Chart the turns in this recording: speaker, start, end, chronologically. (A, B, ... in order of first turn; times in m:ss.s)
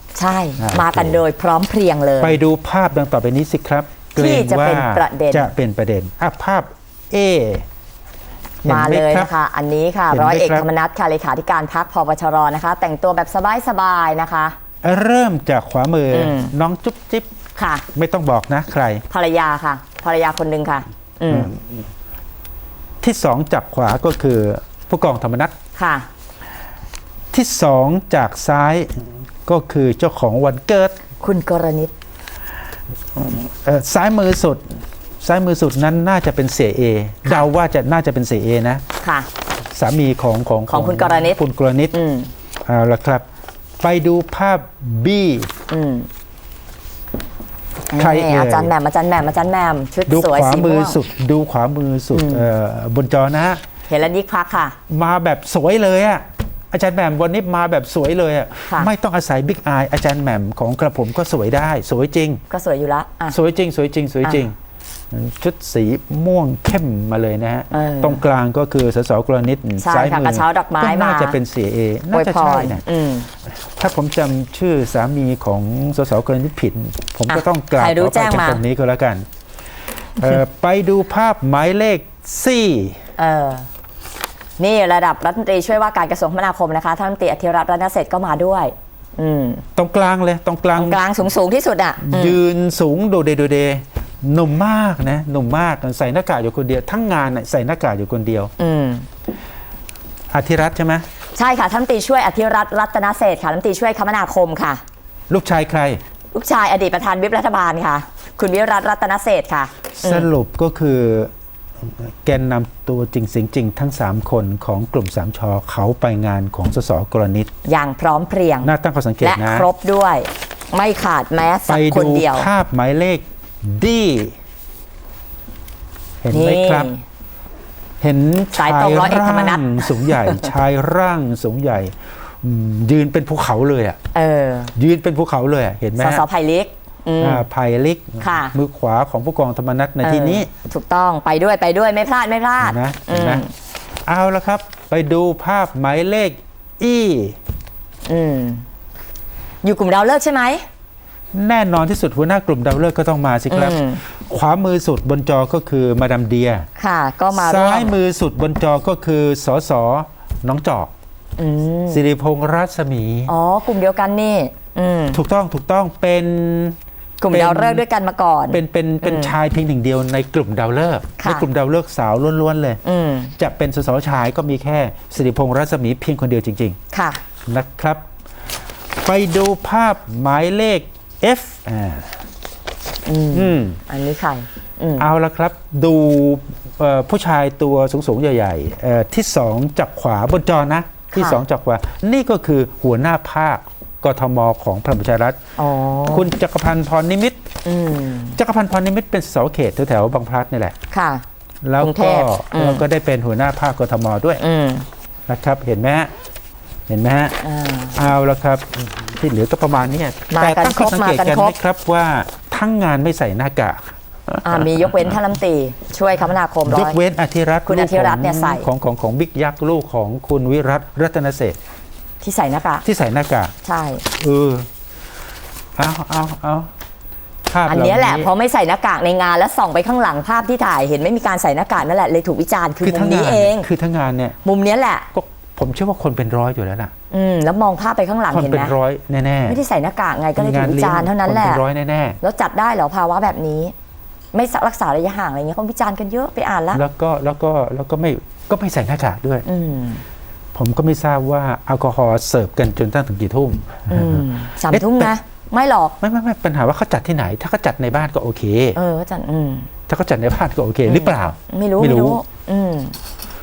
0:00.1-0:02.4 A
0:00.6-0:01.2 B
0:02.2-0:07.6 B
0:04.2-0:05.5 A
0:08.6-0:14.6 A
0:08.6-0:09.3 B
0:10.1-0:10.6 B
0:14.8-0:17.3 B
0:16.1-0:16.5 A
0:17.6-0:17.8 A
0:17.9-0:19.0 B
0:19.1-0:21.5 A
0:21.3-0:21.8 B
0:23.0-0:25.5 B
0:25.8-0:26.1 A
0:27.3-0:31.0 B
0:31.2-0:31.9 A
0:33.1-0:38.8 B
0:39.0-0:39.3 A
0:39.7-0:41.9 B
0:40.7-0:41.4 A
0:41.9-0:42.3 A
0:42.7-0:43.2 B
0:43.8-0:45.5 B
0:45.7-0:46.1 A
0:47.9-0:51.0 A
0:47.9-0:48.7 B
0:50.1-0:53.6 B
0:52.1-0:52.4 A
0:53.9-0:54.8 A
0:54.9-1:02.4 B
1:02.5-1:03.4 A
1:03.3-1:04.5 B
1:05.1-1:12.8 B
1:07.7-1:08.2 A
1:09.8-1:11.4 A
1:12.1-1:13.3 A
1:13.5-1:19.2 B
1:17.3-1:18.6 A
1:20.2-1:23.0 B
1:23.2-1:23.7 A
1:24.6-1:29.6 A
1:29.8-1:31.0 B
1:30.7-1:32.4 A
1:32.0-1:38.5 B
1:38.6-1:39.0 A
1:40.3-1:41.0 B
1:41.3-1:44.8 A
1:45.3-1:46.0 B
1:46.3-1:50.3 A
1:50.0-1:51.3 B
1:51.8-1:57.5 B
1:57.6-1:58.7 A
1:58.6-1:59.7 B
1:59.2-2:02.5 A
2:01.7-2:04.4 B
2:06.2-2:06.9 B
2:06.3-2:07.0 A
2:08.0-2:14.0 B
2:08.5-2:10.5 A
2:14.1-2:14.7 A
2:14.7-2:16.2 B
2:16.0-2:17.4 A
2:17.2-2:20.5 B
2:18.2-2:18.5 A
2:20.0-2:23.5 A
2:22.6-2:23.4 B
2:24.0-2:27.4 B
2:28.0-2:28.6 A
2:29.6-2:30.6 A
2:31.3-2:36.7 B
2:33.5-2:34.0 A
2:36.8-2:38.0 A
2:37.3-2:40.9 B
2:41.4-2:42.0 A
2:41.9-2:43.3 B
2:43.3-2:45.2 A
2:45.1-2:46.8 B
2:47.2-2:49.3 A
2:47.3-2:47.8 B
2:48.5-2:52.8 B
2:51.2-2:51.5 A
2:52.8-2:53.3 A
2:53.4-2:56.8 B
2:56.9-2:57.2 A
2:57.5-2:58.0 B
2:59.0-3:02.1 B
3:03.0-3:05.0 A
3:03.3-3:03.8 B
3:05.0-3:15.4 B
3:11.1-3:11.4 A
3:15.6-3:16.3 A
3:16.1-3:17.4 B
3:17.6-3:18.4 A
3:18.4-3:20.7 B
3:20.9-3:21.2 A
3:21.6-3:24.4 B
3:21.8-3:22.8 A
3:24.4-3:24.9 A
3:25.3-3:26.1 B
3:26.9-3:27.4 B
3:27.4-3:28.0 A
3:27.9-3:34.7 B
3:30.3-3:31.5 A
3:34.4-3:37.0 A
3:36.6-3:41.6 B
3:37.7-3:38.7 A
3:42.2-3:42.8 A
3:42.8-3:43.5 B
3:43.6-3:44.0 A
3:44.1-3:44.7 B
3:45.8-3:46.7 B
3:47.5-3:48.3 B
3:47.7-3:53.7 A
3:52.8-3:54.4 B
3:54.4-3:55.1 A
3:55.1-3:56.9 B
3:57.1-3:58.8 A
3:58.3-3:59.6 B
3:59.5-4:01.6 A
4:00.4-4:02.2 B
4:02.2-4:03.7 A
4:04.3-4:06.8 A
4:06.7-4:09.4 B
4:09.4-4:10.0 A
4:10.5-4:15.1 B
4:13.9-4:16.0 A
4:16.0-4:18.8 B
4:18.7-4:19.7 A
4:19.9-4:22.2 B
4:20.8-4:23.0 A